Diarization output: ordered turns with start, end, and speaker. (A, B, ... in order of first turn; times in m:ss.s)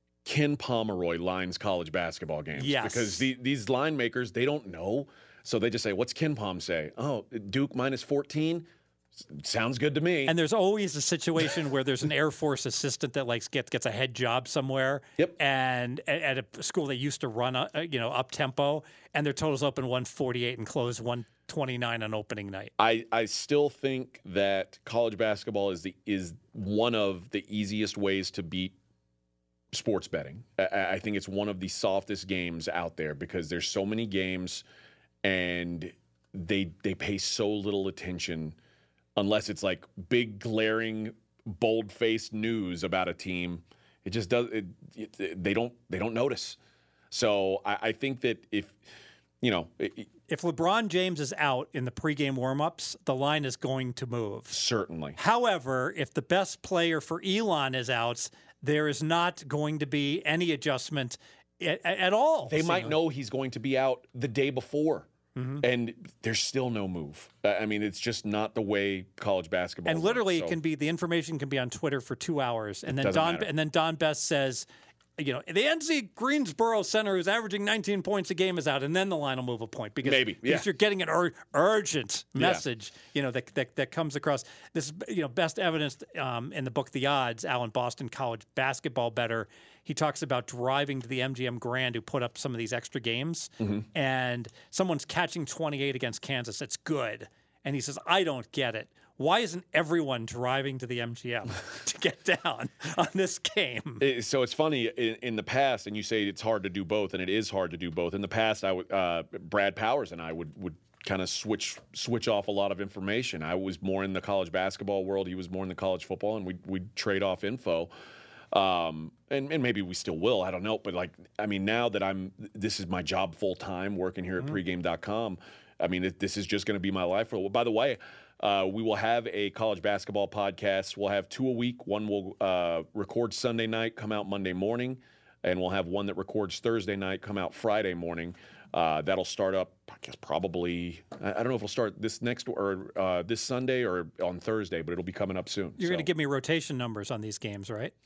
0:00.2-0:10.3 A
0:02.5-0:03.3 B
0:10.2-0:22.7 B
0:22.8-0:28.8 A
0:29.7-0:34.6 A
0:35.2-0:38.6 A
0:39.2-0:46.6 A
0:47.1-0:48.8 A
0:49.4-0:50.1 A
0:50.3-0:54.6 B
0:54.5-0:55.2 A
0:55.2-1:03.0 B
1:02.5-1:05.1 A
1:05.4-1:05.6 B
1:05.6-1:10.6 A
1:09.8-1:14.7 B
1:12.8-1:13.5 A
1:15.2-1:44.0 B
1:20.0-1:20.7 A
1:22.4-1:22.6 A
1:44.0-1:57.9 A
1:58.5-2:26.1 A
2:25.8-2:27.9 B